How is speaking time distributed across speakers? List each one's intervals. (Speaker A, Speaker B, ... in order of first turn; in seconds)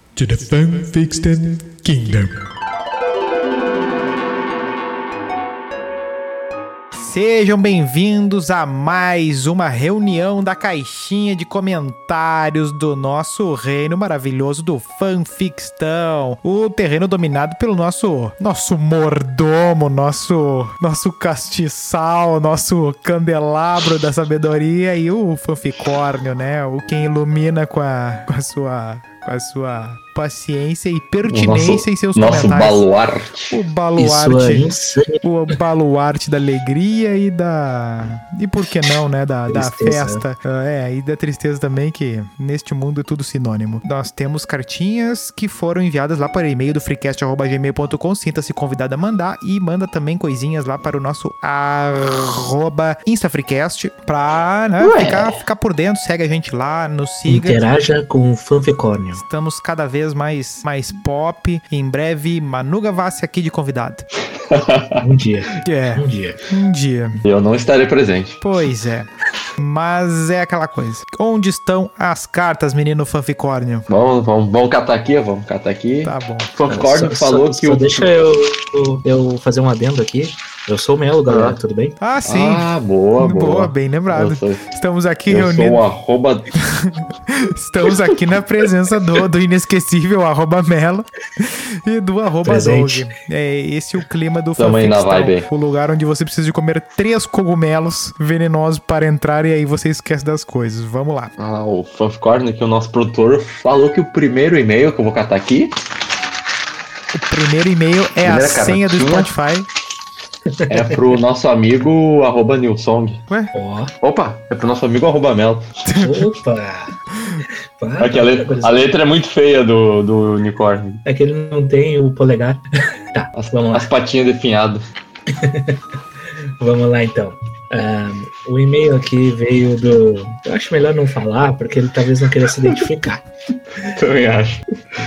Speaker A: 0.1-2.4, 6.9-32.9, 33.5-34.7, 35.2-57.6, 59.1-64.1, 65.6-67.2, 68.4-73.9, 76.0-76.5, 82.0-85.8, 86.6-101.3, 107.1-109.7, 115.8-116.3
Speaker B: 31.3-33.6, 54.8-55.4, 64.5-65.0, 67.3-68.4, 73.9-78.1, 81.3-81.6, 82.2-84.6, 85.3-86.5, 94.6-95.5, 101.4-105.7, 108.2-109.3, 110.7-113.2, 114.0-115.7, 118.0-121.0, 123.4-124.8, 133.9-134.6
Speaker C: 34.0-35.2, 39.5-40.2, 57.3-59.2, 65.0-66.4, 76.7-82.0, 92.5-93.1, 110.6-111.0, 113.5-113.9, 115.9-116.9, 117.8-118.9, 121.0-123.9, 125.3-125.8, 126.6-133.2